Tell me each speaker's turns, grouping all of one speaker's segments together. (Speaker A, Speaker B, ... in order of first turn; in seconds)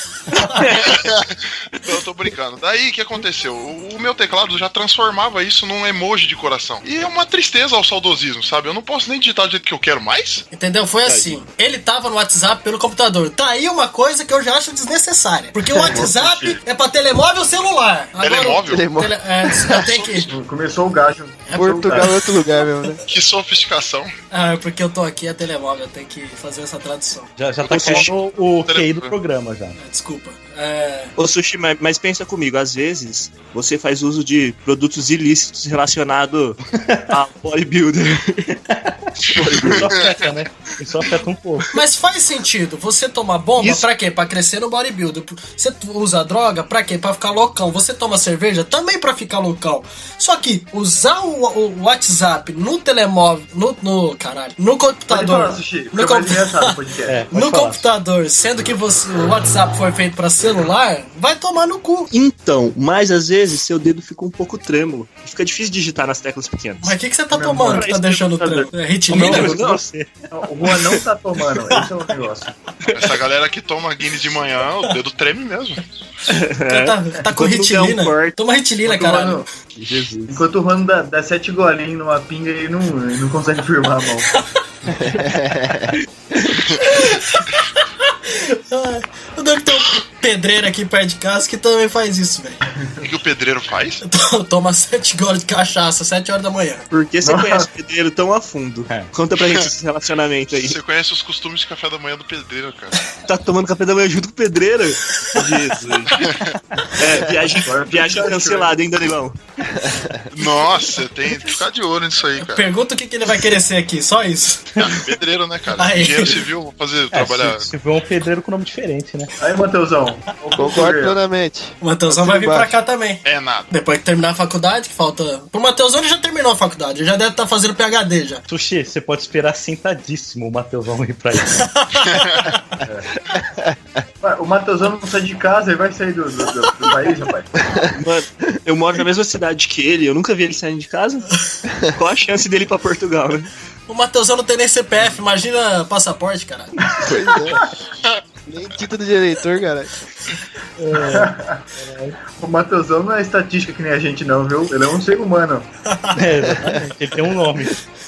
Speaker A: 0.3-0.7, 10.5-20.3, 21.5-22.3, 24.3-27.3, 29.8-31.1, 41.7-56.7, 57.3-62.1, 66.8-69.6, 76.7-79.4, 86.8-92.6, 94.0-96.8, 112.4-114.9, 115.8-116.4, 121.8-128.4, 131.6-132.8, 143.9-146.8, 155.9-156.2
Speaker B: 0.5-10.4, 18.2-18.9, 19.9-20.3, 23.1-24.1, 27.7-29.1, 39.3-40.2, 72.9-75.8, 93.0-94.0, 100.5-103.1, 106.1-106.6, 110.3-112.7, 114.8-117.7, 123.2-123.7, 132.0-132.5
Speaker C: 0.6-1.0, 11.1-11.3, 27.7-28.1, 31.2-38.6, 43.6-43.9, 62.1-67.0, 67.7-69.9, 72.8-73.1, 76.3-78.4, 79.9-80.3, 96.9-100.8, 103.3-106.1, 107.0-109.4, 138.0-141.4, 141.9-143.5
Speaker D: 15.8-16.6, 20.3-22.1, 55.1-57.3, 67.3-67.9, 70.3-72.5, 78.8-79.5, 80.3-84.3, 92.8-93.1, 97.2-97.7, 107.6-108.7, 119.4-121.2, 134.2-137.5, 146.9-147.6, 150.9-151.6, 152.4-155.7
Speaker E: 18.7-19.9, 21.6-23.0, 39.4-39.9, 79.8-80.3, 85.0-86.0, 109.8-110.2, 120.6-122.8, 133.3-133.8, 137.6-137.9, 147.0-147.7, 148.5-149.9, 156.4-156.8
Speaker F: 27.4-29.8, 36.7-37.2, 38.7-41.7, 57.1-57.9, 69.1-70.1, 117.1-119.3, 128.5-131.7, 150.8-152.2, 156.2-157.8